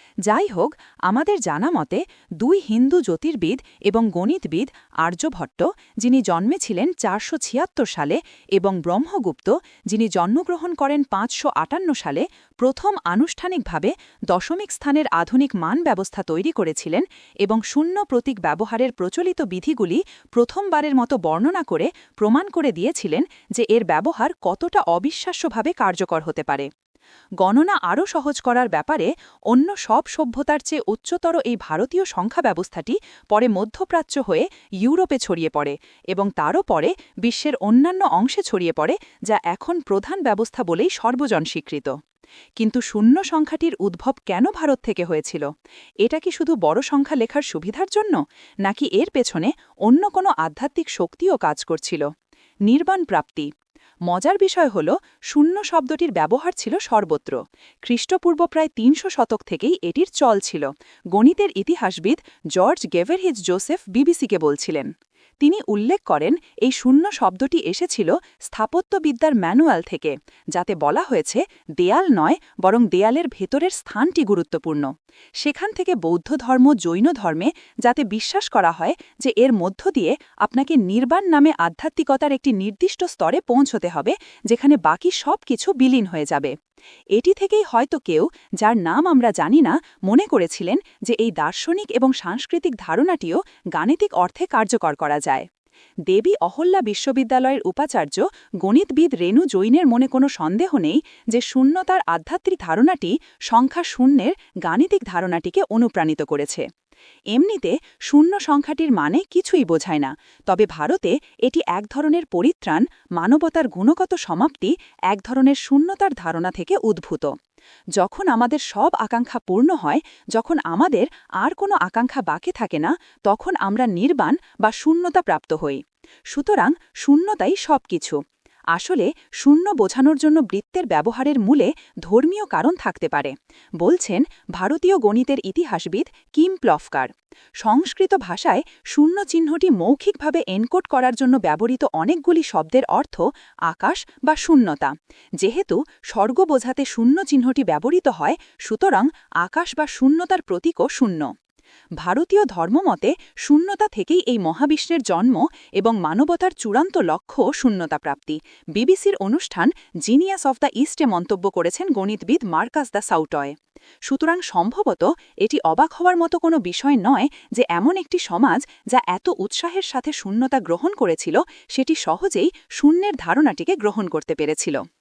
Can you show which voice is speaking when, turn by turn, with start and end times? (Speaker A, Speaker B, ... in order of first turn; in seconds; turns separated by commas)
Speaker A: 0.3-26.7, Speaker A: 27.4-41.9, Speaker A: 42.6-45.5, Speaker A: 46.0-52.1, Speaker A: 52.7-53.5, Speaker A: 54.1-64.9, Speaker A: 65.4-74.9, Speaker A: 75.4-86.5, Speaker A: 87.2-95.5, Speaker A: 96.1-106.6, Speaker A: 107.3-117.3, Speaker A: 118.0-128.2, Speaker A: 128.7-151.3, Speaker A: 152.0-163.5, Speaker A: 164.1-174.8